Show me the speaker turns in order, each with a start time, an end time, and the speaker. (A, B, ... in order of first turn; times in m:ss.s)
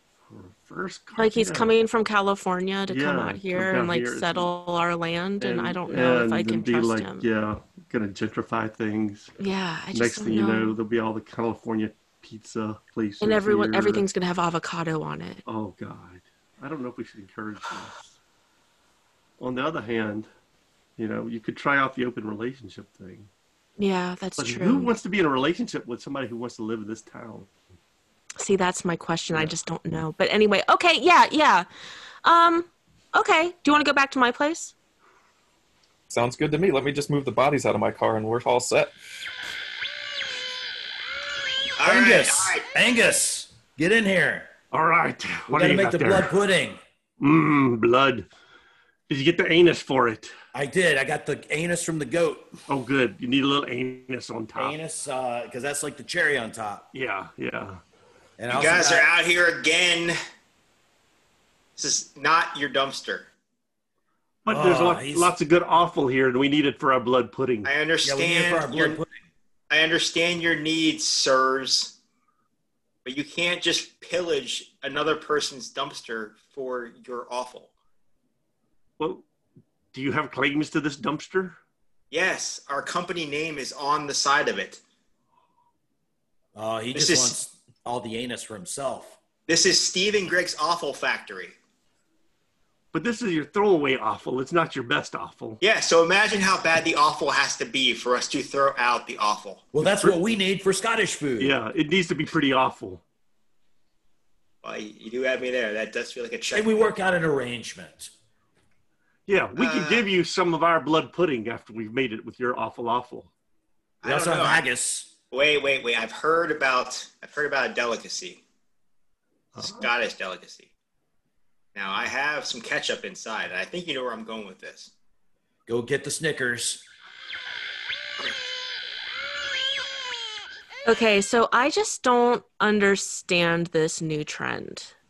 0:00.3-0:01.7 A
0:01.2-0:07.3 B
0:02.9-0:04.5 A
0:05.4-0:09.3 A
0:09.4-0:10.8 B
0:09.9-0:14.0 A
0:13.2-0:15.4 B
0:15.4-0:18.1 A
0:19.4-0:20.3 A
0:21.0-0:23.3 A
0:23.8-0:24.9 B
0:24.4-0:27.5 A
0:28.4-0:31.7 B
0:32.2-0:34.7 B
0:36.1-0:39.0 C
0:41.8-0:42.7 D
0:41.8-0:44.5 E
0:44.7-0:46.4 A
0:45.5-0:46.8 E
0:47.2-0:48.3 A
0:49.1-0:50.3 A
0:50.5-0:52.5 E
0:52.7-0:54.8 A
0:54.6-0:56.9 E
0:56.9-0:57.8 A
0:58.4-0:59.1 E
0:58.5-1:00.2 D
1:01.8-1:03.3 D
1:04.4-1:07.7 A
1:04.5-1:05.3 E
1:07.6-1:09.0 D
1:08.0-1:09.1 E
1:09.7-1:12.0 D
1:13.0-1:17.7 D
1:19.0-1:19.2 A
1:19.9-1:21.6 A
1:22.1-1:24.8 D
1:26.6-1:29.2 E
1:26.9-1:27.4 D
1:29.5-1:31.6 D
1:32.9-1:35.6 A
1:35.6-1:39.7 D
1:39.7-1:41.6 E
1:41.4-1:43.0 A
1:44.6-1:46.9 D
1:46.5-1:48.1 E
1:49.3-1:53.3 A
1:49.6-1:50.1 D
1:54.0-1:54.6 D
1:54.0-1:55.1 E
1:55.3-1:58.4 D
1:59.5-1:59.9 A
1:59.6-2:00.7 D
2:01.8-2:04.9 D
2:05.7-2:06.9 E
2:10.9-2:14.9 B